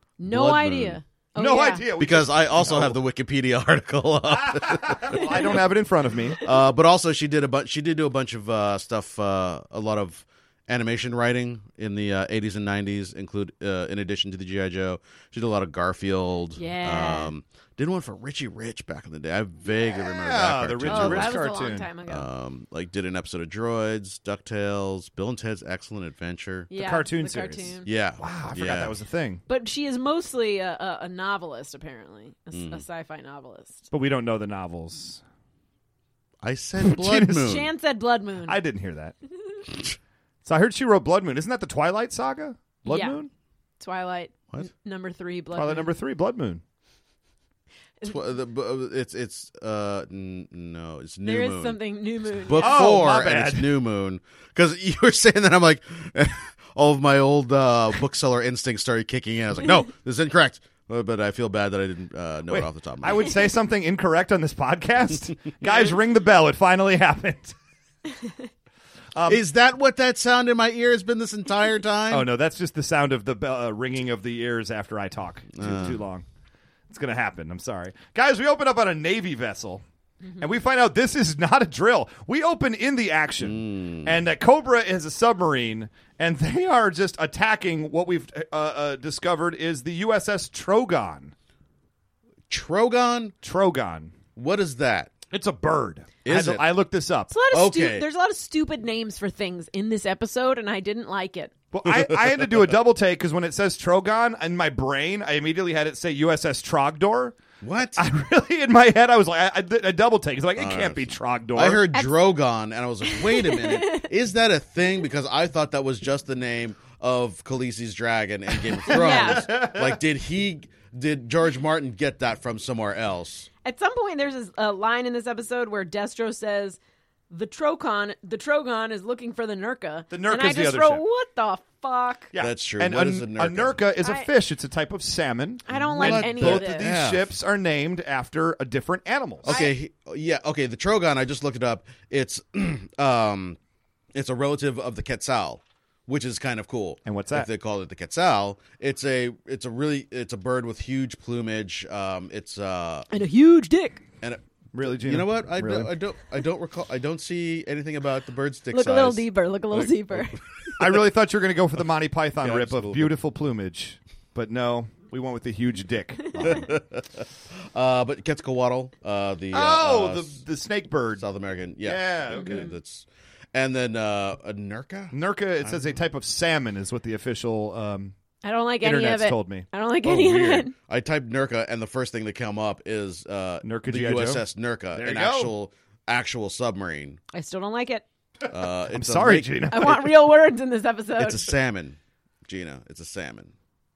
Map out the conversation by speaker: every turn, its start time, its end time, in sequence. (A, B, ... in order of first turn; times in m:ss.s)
0:00.2-0:01.8 A
0:00.3-0:01.0 B
0:01.4-0:03.0 C
0:02.0-0:05.4 B
0:04.4-0:06.4 C
0:06.4-0:21.4 B
0:16.6-0:17.3 A
0:20.0-0:21.9 C
0:20.9-0:22.3 A
0:22.1-0:26.7 B
0:26.7-0:27.8 A
0:26.7-0:29.4 C
0:27.8-0:28.9 B
0:29.5-0:33.8 A
0:32.5-0:32.8 B
0:33.9-0:35.2 C
0:36.4-0:37.7 B
0:36.8-0:37.6 C
0:37.4-0:38.6 A
0:38.4-0:39.1 C
0:40.4-0:43.3 C
0:42.8-0:43.2 A
0:43.8-0:45.9 A
0:45.5-0:46.6 C
0:48.0-0:51.8 B
0:51.2-0:52.9 A
0:52.4-1:03.4 B
0:52.6-0:53.7 C
1:02.5-1:07.5 C
1:09.1-1:09.4 C
1:09.3-1:12.3 B
1:12.1-1:16.2 C
1:15.6-1:16.0 B
1:16.9-1:19.8 C
1:20.4-1:31.3 C
1:23.4-1:24.2 B
1:32.5-1:33.4 B
1:33.4-1:34.1 C
1:34.4-1:35.1 B
1:35.3-1:37.3 C
1:36.2-1:36.7 B
1:37.3-1:41.5 A
1:37.5-1:38.1 B
1:41.7-1:47.3 C
1:41.8-1:42.5 B
1:47.6-1:48.0 B
1:48.0-1:51.8 C
1:50.6-2:03.5 B
1:51.9-1:52.2 A
1:53.1-1:54.1 A
1:58.9-1:59.6 A
1:58.9-2:00.0 C
2:03.6-2:06.8 A
2:07.3-2:12.3 A
2:10.1-2:11.0 C
2:12.3-2:19.5 C
2:12.4-2:13.8 B
2:14.0-2:14.3 A
2:15.7-2:16.9 A
2:15.7-2:17.3 B
2:19.4-2:23.6 B
2:19.4-2:19.7 A
2:24.1-2:33.1 B
2:27.0-2:27.5 C
2:33.1-2:34.0 A
2:34.2-2:40.2 B
2:34.7-2:35.9 C
2:38.7-2:40.4 A
2:40.8-2:46.7 C
2:42.4-2:43.1 B
2:46.4-2:50.4 B
2:49.5-2:51.2 C
2:51.2-2:55.8 B
2:51.8-2:52.7 C
2:55.1-2:58.1 C
2:58.4-3:00.7 A
2:58.8-2:59.7 C
3:00.0-3:07.2 B
3:03.6-3:04.4 C
3:04.9-3:05.5 C
3:07.3-3:08.0 A
3:08.5-3:10.2 B
3:08.9-3:09.9 C
3:09.7-3:11.5 A
3:11.2-3:13.5 B